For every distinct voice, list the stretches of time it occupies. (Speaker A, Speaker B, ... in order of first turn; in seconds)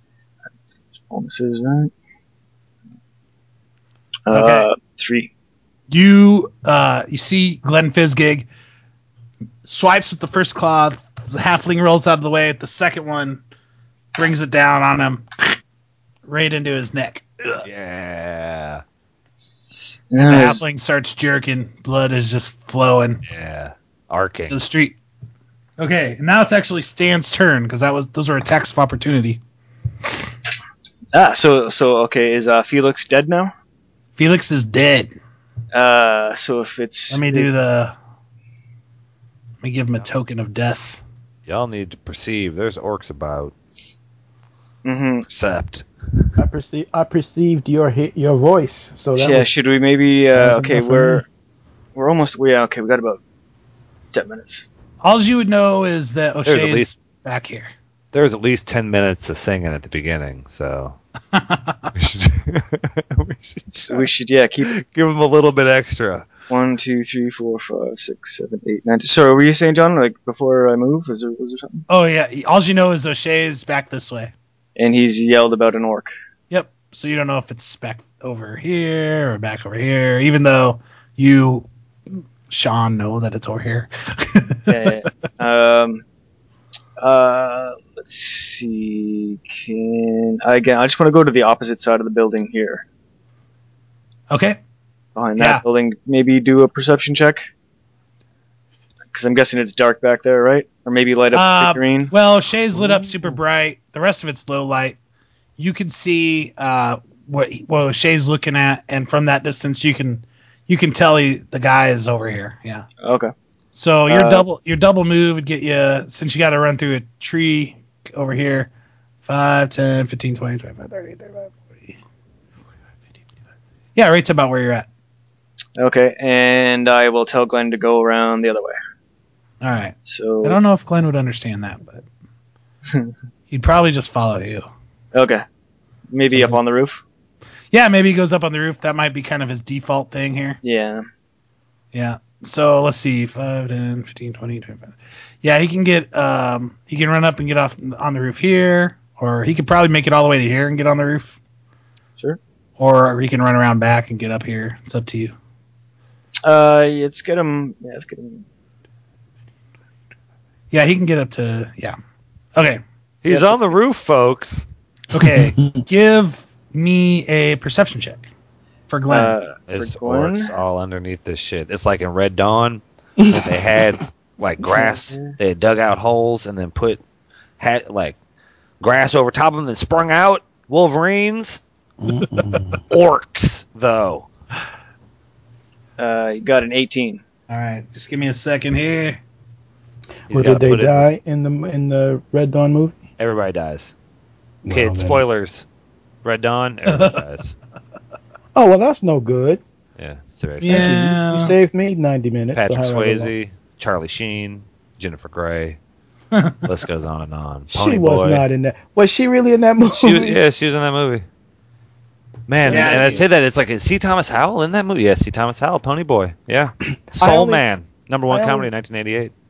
Speaker A: 1.1-1.9, 4.3-5.3, 20.1-20.6, 31.1-33.5, 35.7-37.5, 44.9-45.3, 49.2-51.3, 52.0-53.2, 54.1-54.7, 63.9-64.7, 66.5-71.8, 74.8-76.1, 84.7-86.0, 87.0-92.8, 95.2-97.5, 99.1-102.1, 113.0-113.3, 114.1-114.5, 125.8-128.8, 130.1-130.6, 135.1-135.4, 136.1-137.0, 140.6-141.1, 156.4-158.4, 163.3-163.7, 169.1-170.5, 174.6-175.4, 186.0-187.2
Speaker B: 4.3-4.7, 5.9-8.5, 9.6-13.4, 14.2-15.6, 16.3-17.7, 20.2-23.2, 24.5-25.0, 25.8-29.4, 34.2-35.1, 37.1-38.0, 39.6-41.0, 55.0-57.7, 61.3-61.9, 71.9-74.3, 76.5-84.7, 94.3-94.6, 95.4-95.6, 101.3-105.0, 105.6-112.8, 113.8-118.7, 119.2-122.0, 124.0-124.9, 129.6-132.1, 133.5-134.7, 136.3-136.6, 137.7-140.6, 141.9-151.4, 152.8-155.3, 160.7-162.0, 162.6-162.8, 165.1-168.3, 168.9-169.3, 187.5-189.2, 196.9-197.2, 200.6-201.6, 206.3-206.6, 212.7-213.2
Speaker C: 17.6-18.8, 23.3-24.6, 41.5-43.5, 45.3-46.4, 56.5-56.9, 58.1-61.0, 62.0-64.1, 64.6-66.3, 163.2-164.7, 169.7-177.0, 177.6-178.2, 178.8-181.6, 182.9-184.3, 190.3-191.1, 193.2-193.9, 194.7-195.6, 196.2-197.6, 200.0-200.9, 202.5-205.8, 206.6-208.4, 209.9-211.2, 212.5-219.3
Speaker D: 46.4-49.5, 50.3-51.2, 165.3-165.8, 173.2-173.8, 182.0-182.8, 190.3-193.0, 194.6-195.2, 198.6-199.6, 200.6-203.3, 207.7-210.4, 212.6-213.2, 217.1-217.6, 218.3-218.7